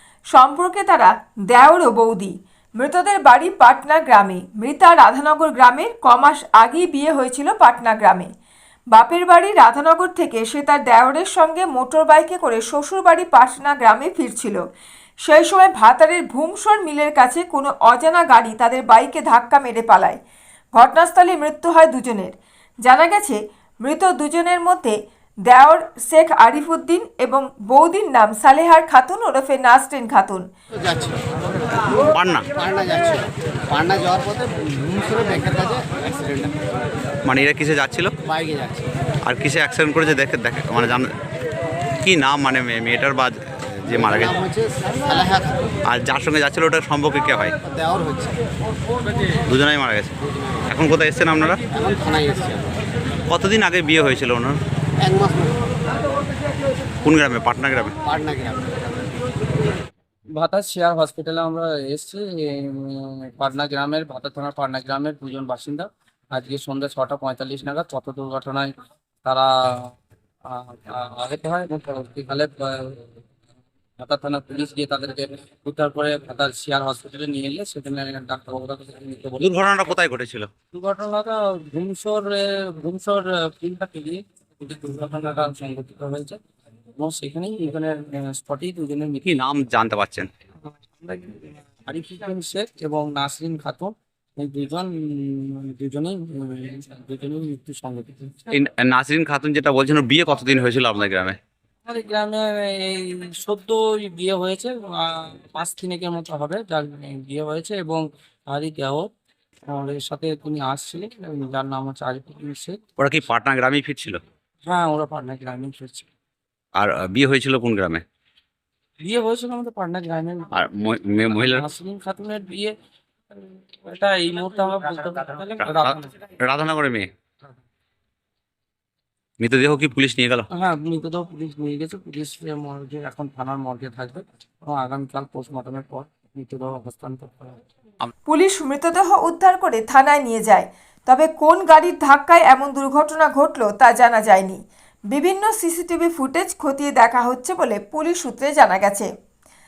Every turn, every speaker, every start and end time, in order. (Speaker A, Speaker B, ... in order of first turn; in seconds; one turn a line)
Speaker A: 0.3-8.3
Speaker A: 8.9-14.6
Speaker A: 15.2-20.2
Speaker A: 20.7-30.5
Speaker B: 30.7-31.3
Speaker C: 32.0-32.5
Speaker B: 32.5-36.7
Speaker C: 37.2-38.1
Speaker B: 38.2-38.9
Speaker C: 39.2-41.1
Speaker C: 42.0-44.4
Speaker B: 44.0-45.7
Speaker C: 45.9-47.5
Speaker B: 47.6-48.4
Speaker C: 49.5-50.1
Speaker C: 50.7-51.6
Speaker B: 51.7-52.8
Speaker C: 53.3-54.6
Speaker B: 55.0-55.6
Speaker C: 57.0-58.0
Speaker B: 58.0-58.7
Speaker D: 60.3-68.7
Speaker D: 69.2-69.9
Speaker D: 70.5-73.2
Speaker D: 74.0-79.5
Speaker C: 79.4-80.5
Speaker D: 80.7-86.4
Speaker D: 87.0-89.2
Speaker C: 89.2-90.3
Speaker D: 90.7-98.4
Speaker C: 98.5-101.4
Speaker D: 101.8-109.1
Speaker D: 109.7-112.8
Speaker C: 113.0-114.2
Speaker D: 114.7-116.1
Speaker C: 116.8-118.0
Speaker D: 119.0-120.5
Speaker C: 120.5-121.6
Speaker D: 121.3-122.7
Speaker D: 123.3-126.1
Speaker C: 125.6-127.1
Speaker C: 129.4-130.5
Speaker D: 130.5-137.6
Speaker A: 138.3-144.6
Speaker A: 145.1-149.1